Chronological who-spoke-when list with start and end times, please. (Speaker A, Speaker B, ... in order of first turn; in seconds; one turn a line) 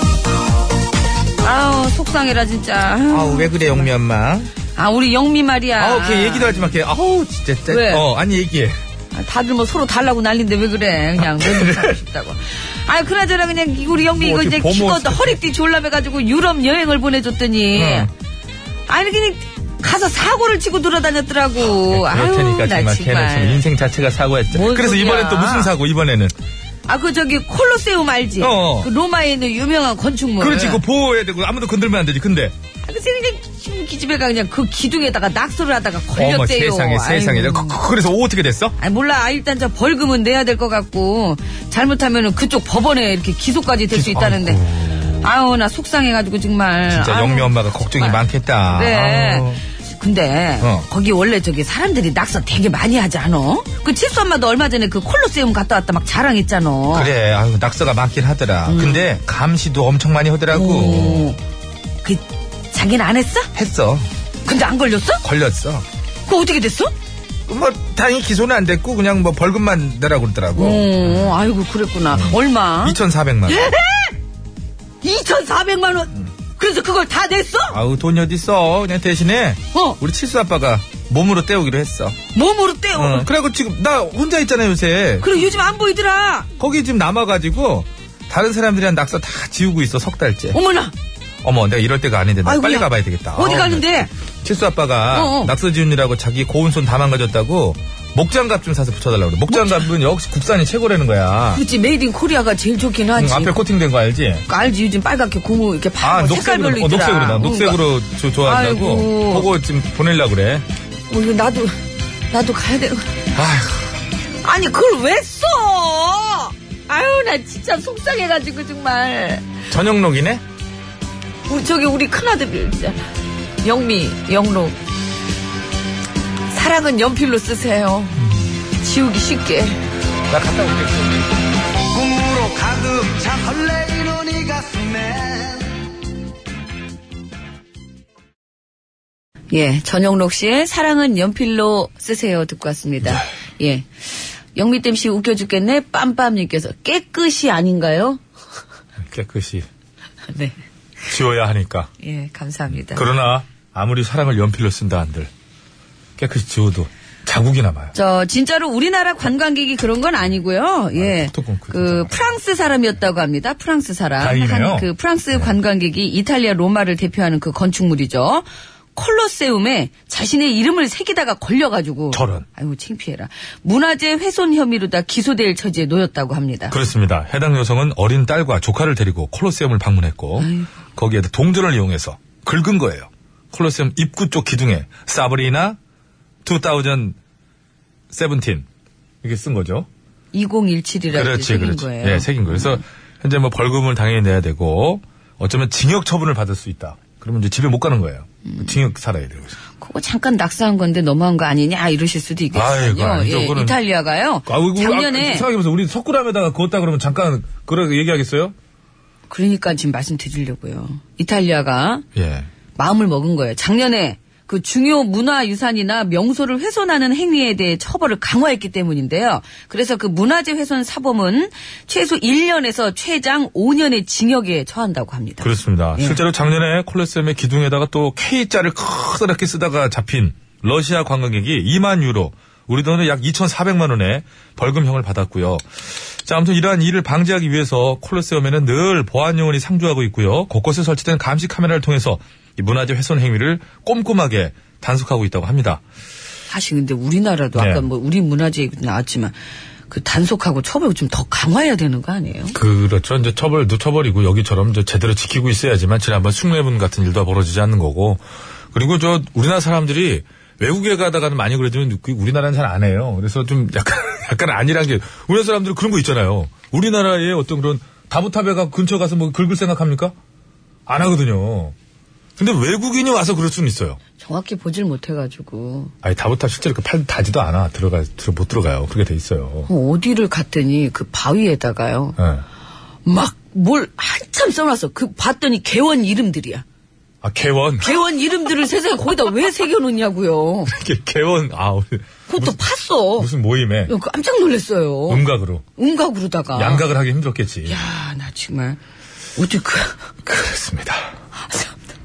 Speaker A: 1.4-3.9
Speaker B: 3.1-4.5
Speaker A: 4.7-6.7
Speaker B: 5.8-8.8
Speaker A: 7.7-8.1
Speaker A: 9.1-18.1
Speaker B: 11.3-11.9
Speaker B: 14.2-15.4
Speaker B: 17.7-18.1
Speaker A: 18.9-23.6
Speaker B: 21.7-26.3
Speaker A: 24.5-25.7
Speaker A: 26.9-30.8
Speaker B: 28.4-28.9
Speaker B: 30.4-32.5
Speaker A: 32.8-37.8
Speaker B: 36.1-38.8
Speaker A: 38.8-44.6
Speaker B: 43.9-45.3
Speaker A: 45.2-57.1
Speaker B: 46.9-49.6
Speaker B: 50.6-50.9
Speaker B: 56.9-61.3
Speaker A: 58.7-59.1
Speaker A: 60.5-61.4
Speaker A: 62.0-63.5
Speaker B: 63.5-64.1
Speaker A: 64.4-65.2
Speaker B: 65.2-65.8
Speaker A: 66.3-66.9
Speaker B: 67.5-71.3
Speaker A: 70.5-74.2
Speaker B: 72.1-73.7
Speaker A: 75.0-77.8
Speaker B: 77.7-82.2
Speaker A: 82.3-83.3
Speaker B: 83.0-85.3
Speaker A: 85.2-86.5
Speaker B: 86.6-90.6
Speaker A: 90.5-90.9
Speaker B: 91.4-101.6
Speaker A: 92.4-94.1
Speaker A: 95.1-95.5
Speaker A: 99.5-99.8
Speaker A: 101.5-103.6
Speaker B: 103.2-104.4
Speaker A: 104.5-107.8
Speaker B: 106.0-110.6
Speaker A: 108.4-109.5
Speaker A: 111.1-111.8
Speaker A: 112.3-113.1
Speaker B: 113.3-113.9
Speaker A: 114.4-119.5
Speaker B: 119.7-120.4
Speaker A: 121.5-123.0
Speaker A: 123.6-124.7
Speaker A: 126.5-128.2
Speaker A: 128.8-129.8
Speaker B: 130.3-131.3
Speaker C: 131.9-135.9
Speaker A: 139.5-148.2
Speaker B: 149.1-149.7
Speaker A: 150.3-150.6
Speaker B: 151.1-151.9
Speaker A: 152.0-153.0
Speaker B: 152.8-155.3
Speaker B: 156.2-157.9
Speaker A: 157.9-176.7
Speaker B: 160.9-162.3
Speaker B: 164.2-165.5
Speaker B: 172.1-172.4
Speaker B: 176.7-185.8
Speaker A: 180.4-180.7
Speaker B: 186.4-187.2
Speaker B: 188.1-188.6
Speaker B: 189.2-189.9
Speaker A: 190.3-192.8
Speaker B: 191.1-199.6
Speaker A: 198.5-198.7
Speaker A: 199.8-205.5
Speaker B: 202.5-203.8
Speaker B: 204.5-208.5
Speaker A: 209.3-212.0
Speaker B: 212.2-212.5
Speaker A: 212.8-226.2
Speaker B: 225.4-245.8
Speaker A: 246.5-249.3
Speaker B: 247.6-247.8
Speaker A: 249.9-252.6
Speaker B: 252.5-270.1
Speaker B: 270.9-271.7
Speaker B: 272.4-274.0
Speaker A: 274.2-275.9
Speaker B: 276.0-279.7
Speaker A: 279.7-282.2
Speaker B: 282.2-282.4
Speaker A: 283.0-286.6
Speaker B: 287.2-287.9
Speaker A: 287.8-290.7
Speaker B: 290.6-292.6
Speaker A: 292.3-293.3
Speaker B: 293.1-293.9
Speaker A: 293.9-295.2
Speaker B: 295.1-295.6
Speaker A: 295.8-296.8
Speaker B: 296.5-297.8
Speaker A: 297.6-298.8
Speaker A: 299.4-300.0
Speaker B: 300.2-301.1